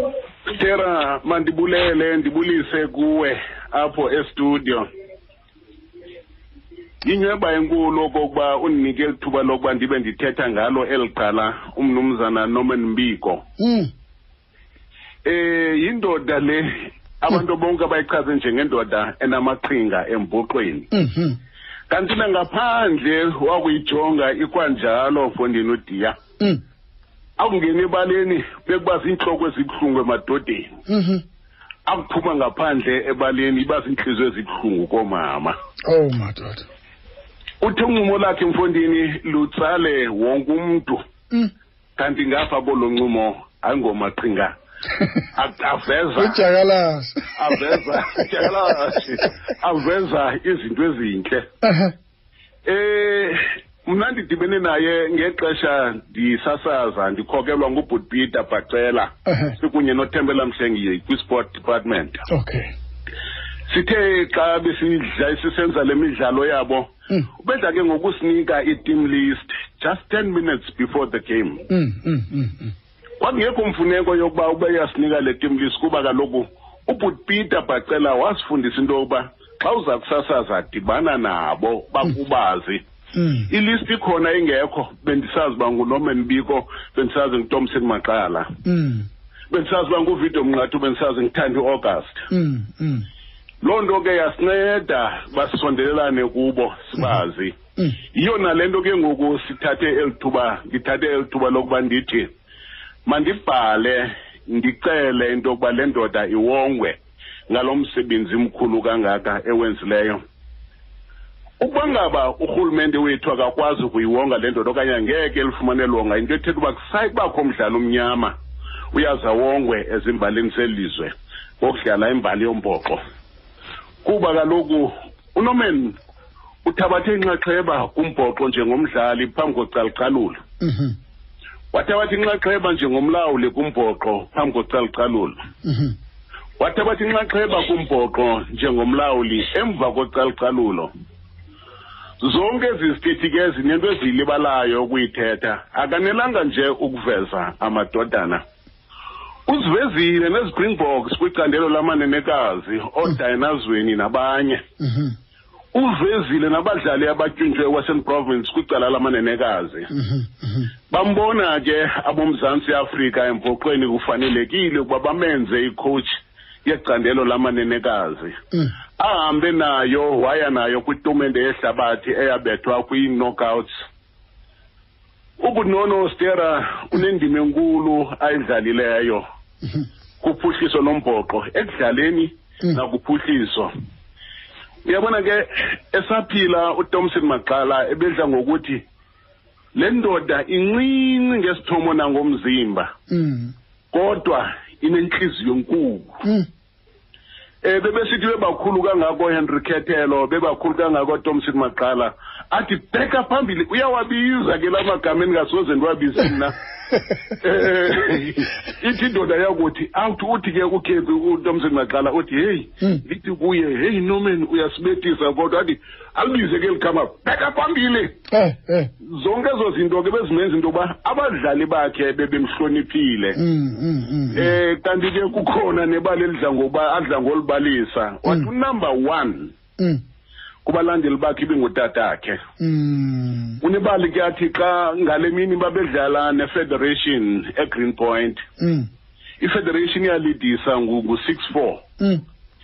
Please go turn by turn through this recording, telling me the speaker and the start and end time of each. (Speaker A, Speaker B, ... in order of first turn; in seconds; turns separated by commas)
Speaker A: 0.5-4.9, Speaker A: 7.0-13.4, Speaker B: 13.6-13.9, Speaker A: 15.2-20.9, Speaker B: 20.9-21.4, Speaker A: 21.9-26.2, Speaker A: 27.4-30.7, Speaker B: 30.9-31.2, Speaker A: 31.9-35.6, Speaker B: 35.9-36.6, Speaker A: 37.6-41.0, Speaker A: 42.0-44.5, Speaker A: 45.4-46.4, Speaker B: 46.2-48.5, Speaker A: 47.4-51.5, Speaker B: 51.6-51.9, Speaker A: 52.6-62.2, Speaker B: 59.3-59.5, Speaker B: 62.3-62.7, Speaker A: 63.7-71.7, Speaker B: 71.7-72.7, Speaker A: 73.2-82.8, Speaker B: 83.2-83.5, Speaker A: 83.5-88.5, Speaker B: 88.7-89.1, Speaker A: 89.5-92.2, Speaker B: 92.3-93.1, Speaker A: 93.6-97.6, Speaker A: 98.1-102.3, Speaker A: 103.1-107.0, Speaker A: 107.5-110.2, Speaker A: 111.6-118.4, Speaker A: 118.9-123.0, Speaker A: 124.0-126.0, Speaker A: 126.7-130.4, Speaker B: 130.6-130.9, Speaker A: 131.7-135.4, Speaker B: 135.6-135.9, Speaker A: 136.6-140.9, Speaker A: 142.2-148.4, Speaker A: 149.5-154.6, Speaker B: 154.8-155.1, Speaker A: 155.7-159.9, Speaker B: 159.9-160.7, Speaker A: 160.9-166.1, Speaker A: 166.7-168.4, Speaker A: 169.0-173.7, Speaker A: 175.4-179.2, Speaker A: 180.2-183.7, Speaker A: 184.8-188.8, Speaker A: 189.8-192.9, Speaker B: 193.1-193.5, Speaker A: 193.9-196.2, Speaker A: 197.6-206.6, Speaker A: 207.4-218.2, Speaker B: 218.3-218.9, Speaker A: 219.0-223.4, Speaker B: 223.4-224.6, Speaker A: 224.3-229.6, Speaker A: 230.6-232.4, Speaker B: 232.6-233.6, Speaker A: 233.6-238.4, Speaker B: 238.6-238.9, Speaker A: 239.4-241.8